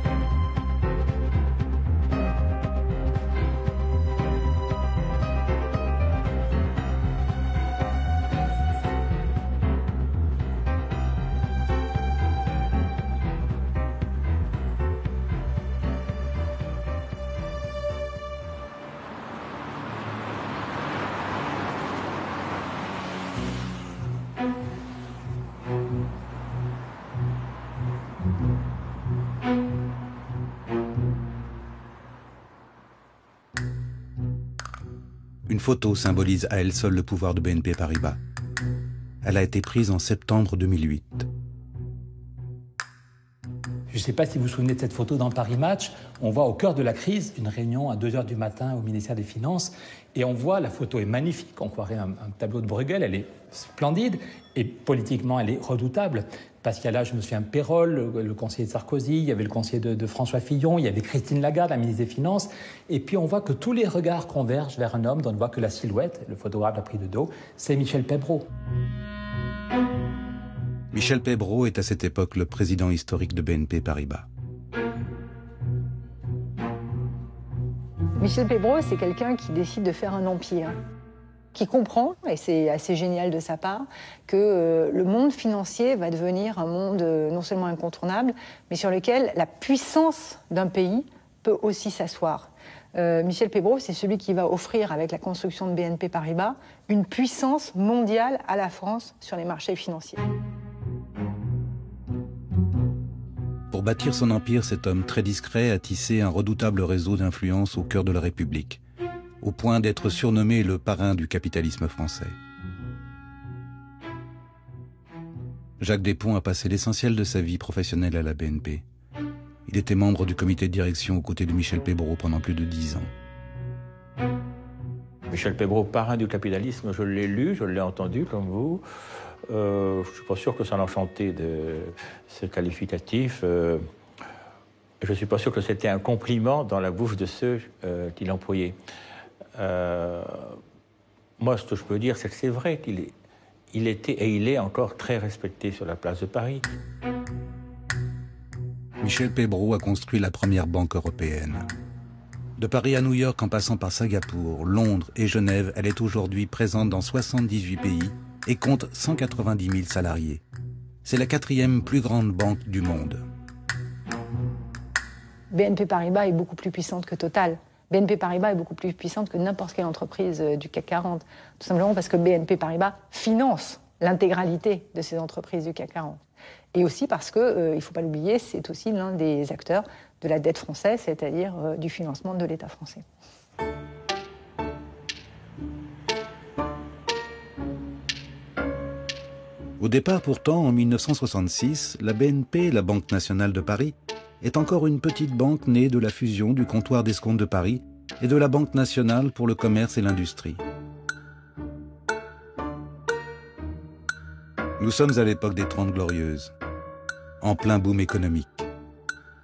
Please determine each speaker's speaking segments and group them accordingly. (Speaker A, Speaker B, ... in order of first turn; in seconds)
Speaker A: 35.5-38.2, 39.2-41.3, 70.9-74.3, 103.7-108.8, 109.4-112.4, 115.8-118.8, 119.7-123.1, 149.0-151.7, 152.6-160.4, 161.0-163.2, 189.8-200.6, 204.8-206.5, 207.4-208.7
Speaker B: 43.9-68.5
Speaker C: 78.2-80.8, 81.5-100.2, 165.5-176.2, 176.7-183.0
Speaker D: 125.3-128.8, 129.5-133.8, 135.0-138.8, 139.6-140.6, 141.4-143.1, 143.7-146.6